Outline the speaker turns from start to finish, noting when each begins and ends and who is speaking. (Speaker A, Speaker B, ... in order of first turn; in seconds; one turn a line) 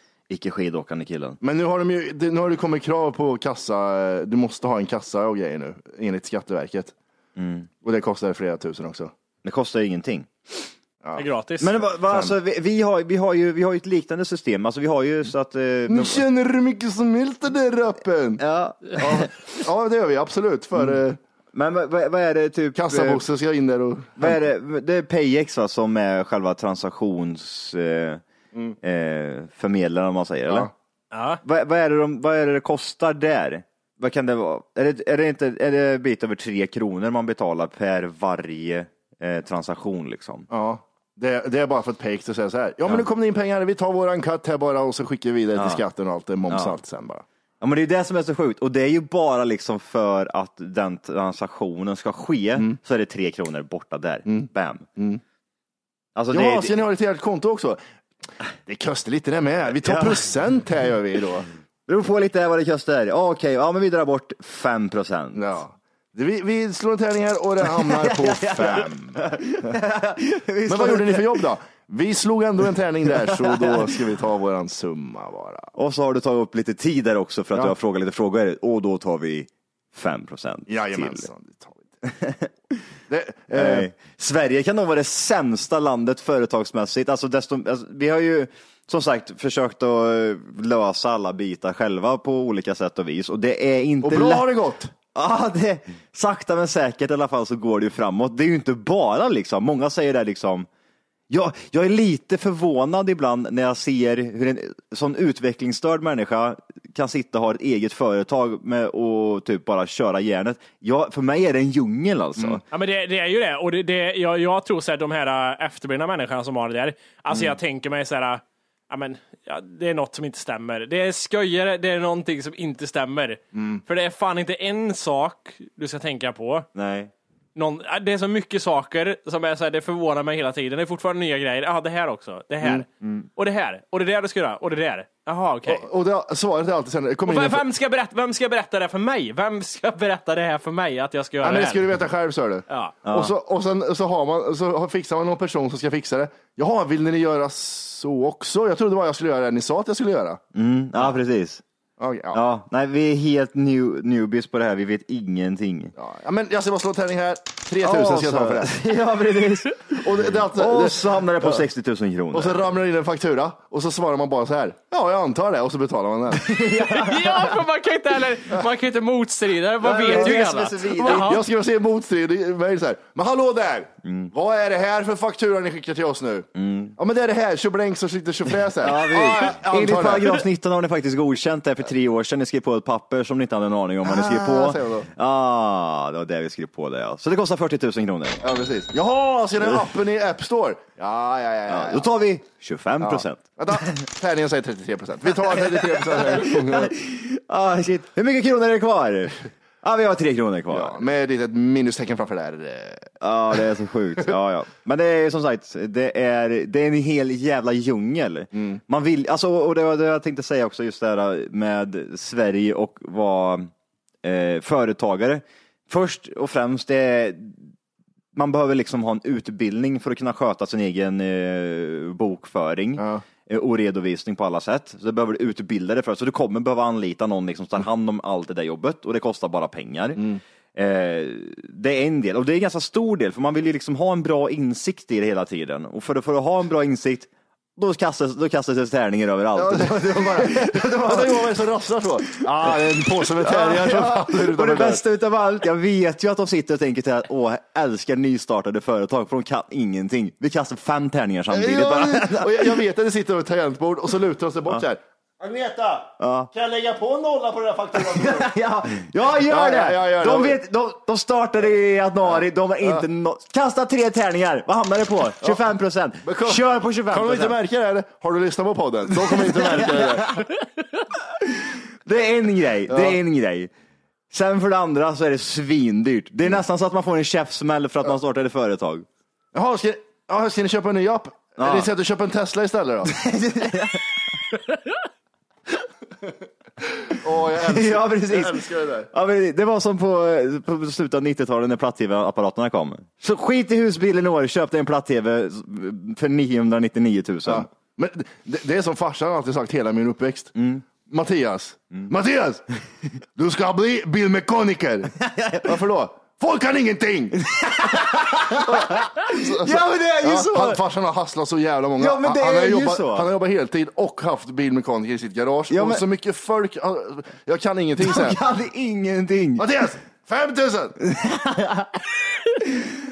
Speaker A: 0.3-1.4
Speaker B: 1.4-6.9
Speaker A: 7.4-7.7
Speaker B: 7.8-9.1
Speaker A: 9.4-10.3
Speaker C: 11.2-11.8
Speaker A: 11.6-16.2
Speaker B: 12.1-12.3
Speaker B: 15.9-18.4
Speaker A: 18.4-19.3
Speaker B: 18.9-21.2
Speaker A: 21.5-23.2
Speaker B: 22.8-24.4
Speaker A: 24.2-28.2
Speaker A: 28.8-30.7
Speaker C: 31.1-31.4
Speaker A: 31.4-40.5
Speaker B: 40.5-47.2
Speaker A: 45.5-45.8
Speaker A: 46.5-46.8
Speaker A: 47.6-54.9
Speaker B: 54.3-55.2
Speaker A: 56.1-56.8
Speaker B: 56.3-57.8
Speaker B: 58.7-61.5
Speaker A: 59.8-60.2
Speaker A: 61.9-65.5
Speaker B: 65.3-69.7
Speaker A: 67.6-71.4
Speaker B: 70.7-75.7
Speaker A: 73.2-73.9
Speaker A: 75.8-81.3
Speaker B: 80.7-81.8
Speaker A: 82.1-82.8
Speaker B: 83.1-83.9
Speaker A: 83.5-94.5
Speaker B: 94.0-94.9
Speaker A: 95.1-100.7
Speaker A: 101.3-112.6
Speaker C: 112.7-126.7
Speaker B: 123.5-123.8
Speaker A: 126.8-127.1
Speaker C: 127.6-135.9
Speaker A: 133.0-133.3
Speaker B: 135.7-137.6
Speaker C: 137.2-141.8
Speaker B: 141.4-150.4
Speaker C: 142.7-143.0
Speaker A: 143.1-143.3
Speaker A: 150.5-151.6
Speaker B: 152.0-152.4
Speaker A: 152.3-155.9
Speaker B: 156.0-158.7
Speaker A: 157.8-160.0
Speaker B: 160.0-161.6
Speaker A: 160.5-162.7
Speaker B: 162.3-166.4
Speaker A: 166.4-167.6
Speaker C: 166.9-171.4
Speaker A: 169.8-171.3
Speaker B: 169.9-170.4
Speaker B: 171.0-180.4
Speaker A: 174.0-174.3
Speaker A: 176.6-177.0
Speaker A: 178.8-188.4
Speaker B: 184.0-185.1
Speaker B: 188.4-192.1
Speaker A: 191.7-193.6
Speaker B: 193.0-196.9
Speaker A: 196.0-201.0
Speaker B: 200.7-203.1
Speaker A: 203.2-213.7
Speaker B: 208.5-208.8
Speaker A: 214.2-217.7
Speaker A: 218.3-230.2
Speaker B: 223.0-223.2
Speaker A: 230.8-241.6
Speaker B: 239.6-245.0
Speaker A: 243.4-252.8
Speaker B: 251.5-258.5
Speaker A: 256.2-256.5
Speaker A: 258.0-267.6
Speaker B: 259.3-260.6
Speaker B: 262.3-263.1
Speaker B: 266.2-270.4
Speaker A: 269.6-270.4
Speaker A: 272.1-273.7
Speaker B: 272.9-273.2
Speaker A: 274.3-279.1
Speaker B: 279.5-283.1
Speaker A: 281.6-281.9
Speaker A: 283.1-284.1
Speaker B: 287.1-289.1
Speaker A: 287.6-297.7
Speaker B: 297.5-302.6
Speaker A: 300.6-300.8
Speaker B: 303.4-307.4
Speaker A: 305.2-305.7
Speaker A: 307.4-310.8
Speaker B: 308.3-318.4
Speaker A: 312.0-313.3
Speaker A: 315.7-316.0
Speaker A: 318.0-319.7
Speaker B: 319.6-321.0
Speaker A: 321.0-322.0
Speaker A: 322.6-322.9